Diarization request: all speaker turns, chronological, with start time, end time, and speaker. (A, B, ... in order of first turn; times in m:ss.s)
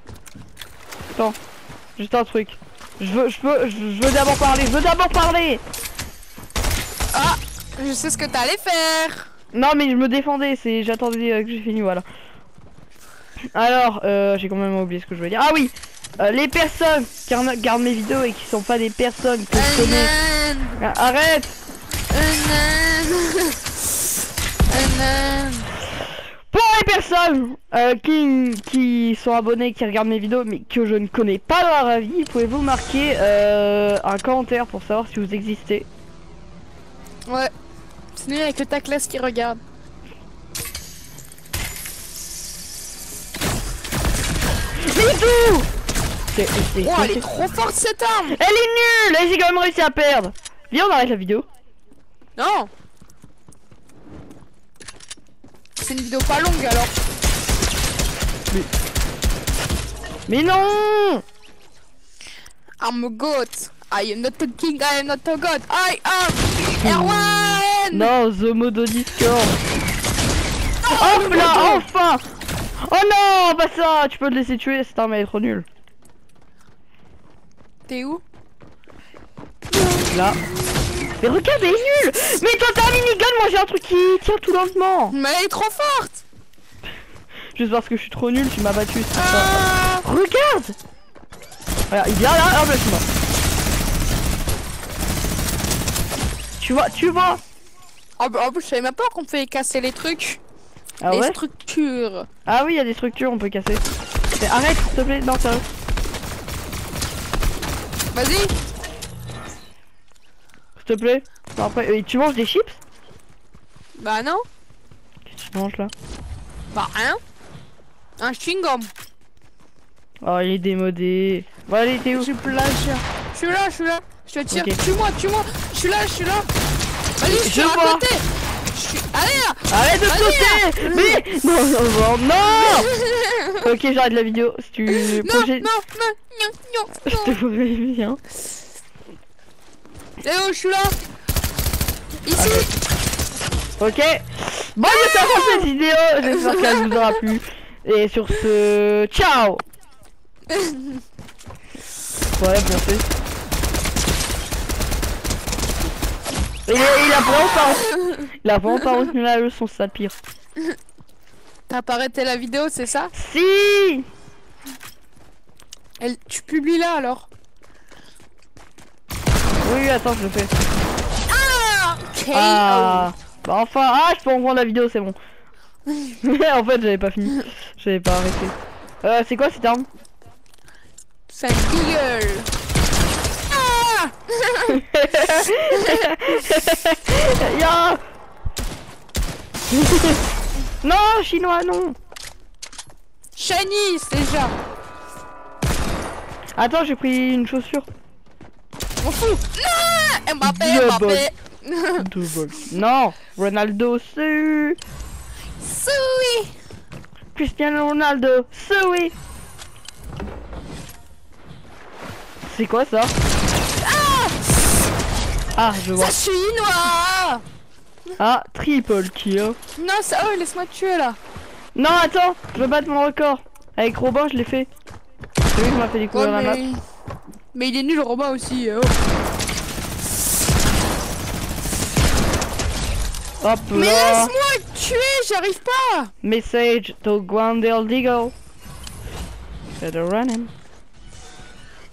0:02.0-0:05.6 A
0:07.1-0:09.3 B
0:09.5-0:12.0 A
0:13.5-0:20.1 A
0:19.5-0:20.8 B
0:20.8-0:21.6 A
0:22.1-0:23.6 B
0:24.7-0:25.7 B
0:26.5-0:35.9 A
0:37.2-0:37.5 B
0:38.1-0:39.6 B
0:44.8-0:45.7 A
0:46.3-0:47.2 A
0:46.8-0:48.4 B
0:48.3-0:51.4 A
0:52.4-0:52.7 B
0:55.8-0:56.9 B
1:00.3-1:01.2 A
1:02.8-1:08.1 B
1:06.8-1:07.2 A
1:07.9-1:09.5 A
1:10.8-1:11.8 B
1:10.8-1:12.3 A
1:12.8-1:15.7 A
1:17.9-1:18.2 B
1:19.7-1:20.4 B
1:20.1-1:20.4 A
1:21.2-1:25.1 A
1:25.1-1:26.2 B
1:27.5-1:30.7 A
1:29.1-1:30.0 B
1:31.9-1:33.0 A
1:36.6-1:37.4 A
1:38.2-1:40.4 B
1:41.0-1:41.4 A
1:41.1-1:42.3 B
1:42.4-1:43.8 A
1:44.4-1:45.6 A
1:48.1-1:48.5 B
1:50.8-1:52.8 A
1:54.0-1:54.4 B
1:55.3-1:55.9 A
1:56.7-1:57.2 B
1:58.2-1:58.9 B
2:00.2-2:02.3 A
2:02.1-2:06.5 B
2:04.5-2:04.8 A
2:07.2-2:11.2 B
2:07.3-2:08.0 A
2:09.7-2:12.9 A
2:12.5-2:13.6 B
2:13.6-2:15.7 A
2:14.9-2:17.4 B
2:17.0-2:18.2 A
2:20.2-2:21.0 B
2:22.2-2:22.7 B
2:22.4-2:22.7 A
2:23.8-2:29.6 A
2:24.8-2:25.7 B
2:26.4-2:26.9 B
2:30.5-2:31.0 B
2:32.4-2:33.1 A
2:36.7-2:37.9 A
2:37.0-2:38.2 B
2:38.4-2:40.2 A
2:41.7-2:43.1 B
2:43.1-2:44.0 A
2:46.0-2:47.3 B
2:49.6-2:50.5 A
2:51.3-2:53.1 B
2:52.3-2:55.1 A
2:56.1-2:59.9 A
3:01.3-3:02.5 B
3:03.5-3:04.8 B
3:04.7-3:08.0 A
3:05.7-3:06.1 B
3:09.7-3:10.2 A
3:10.8-3:12.0 A
3:13.4-3:14.6 B
3:16.6-3:17.9 A
3:19.0-3:22.1 B
3:20.4-3:21.3 A
3:22.0-3:24.8 A
3:25.6-3:26.5 B
3:27.3-3:29.1 A
3:32.4-3:33.1 A
3:33.8-3:34.4 B
3:35.6-3:36.1 A
3:35.9-3:37.4 B
3:38.2-3:39.6 A
3:39.8-3:41.2 B
3:41.7-3:44.7 A
3:45.5-3:46.6 A
3:46.1-3:46.8 B
3:47.5-3:49.0 B
3:53.4-3:54.3 A
3:53.7-3:56.1 B
3:56.2-3:58.3 A
3:59.8-4:00.5 A